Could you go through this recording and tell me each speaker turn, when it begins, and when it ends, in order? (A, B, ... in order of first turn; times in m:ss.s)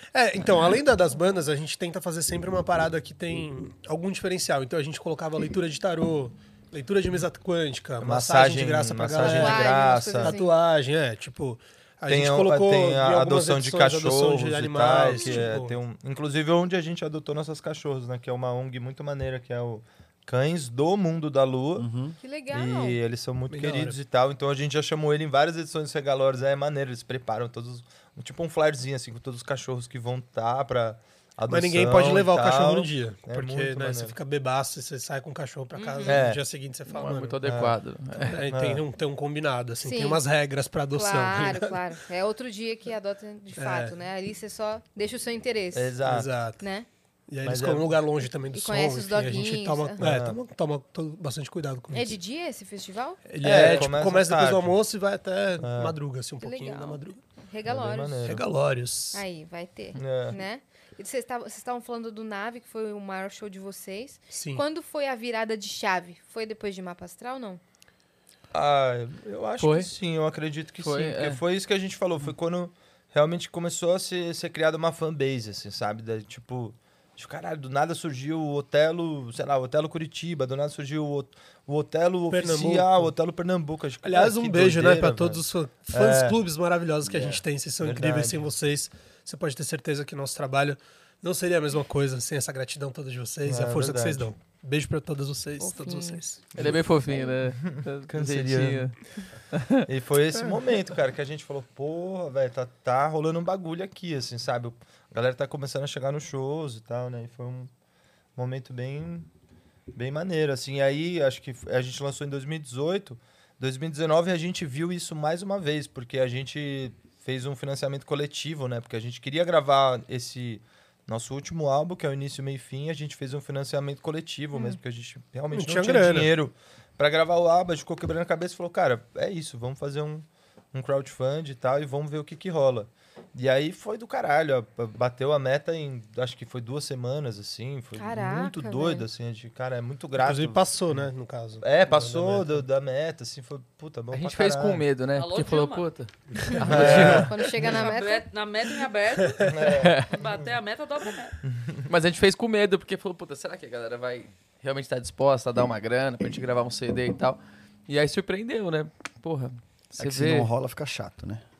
0:00.1-0:15.8 A
0:08.0-0:10.3 B
0:09.2-0:10.5 C
0:12.1-0:21.9 B
0:21.8-0:22.2 D
0:22.2-0:23.0 C
0:22.5-0:34.2 B
0:23.5-0:24.0 A
0:31.5-0:37.4 A
0:35.8-0:36.2 C
0:36.0-0:36.4 B
0:36.9-0:38.4 E
0:37.4-0:37.8 B
0:38.2-0:41.9 A
0:38.5-0:38.8 B
0:39.8-0:40.2 C
0:40.9-0:46.0 C
0:43.6-0:44.0 A
0:45.7-0:46.3 B
0:46.0-0:46.6 A
0:46.6-0:46.8 C
0:47.3-0:52.2 A
0:47.4-0:48.0 B
0:48.5-0:50.0 C
0:50.0-0:50.4 B
0:51.9-0:53.2 C
0:53.3-0:57.2 A
0:53.4-0:54.8 B
0:55.6-0:56.0 B
0:56.4-0:58.4 C
0:57.7-0:58.5 B
0:58.2-0:59.2 A
0:59.1-1:07.6 C
0:59.9-1:00.4 B
1:04.3-1:04.6 A
1:08.5-1:26.4 B
1:09.6-1:09.9 E
1:10.8-1:11.4 E
1:22.3-1:23.1 A
1:24.0-1:36.5 A
1:27.0-1:27.4 D
1:27.8-1:28.4 B
1:33.4-1:34.3 B
1:35.6-1:36.2 C
1:36.5-1:36.8 B
1:36.5-1:39.0 E
1:37.5-1:38.9 B
1:39.5-1:39.8 E
1:39.9-1:47.7 B
1:48.4-1:49.3 B
1:49.9-2:20.6 B
2:04.5-2:04.8 C
2:05.5-2:06.3 A
2:18.0-2:19.0 C
2:20.2-2:22.6 A
2:21.6-2:24.8 B
2:24.1-2:27.4 E
2:25.1-2:25.9 F
2:26.6-2:27.3 B
2:26.6-2:28.2 C
2:27.6-2:31.4 F
2:29.5-2:30.5 B
2:29.7-2:30.2 E
2:31.4-2:31.9 B
2:31.9-2:40.5 E
2:40.0-2:41.4 D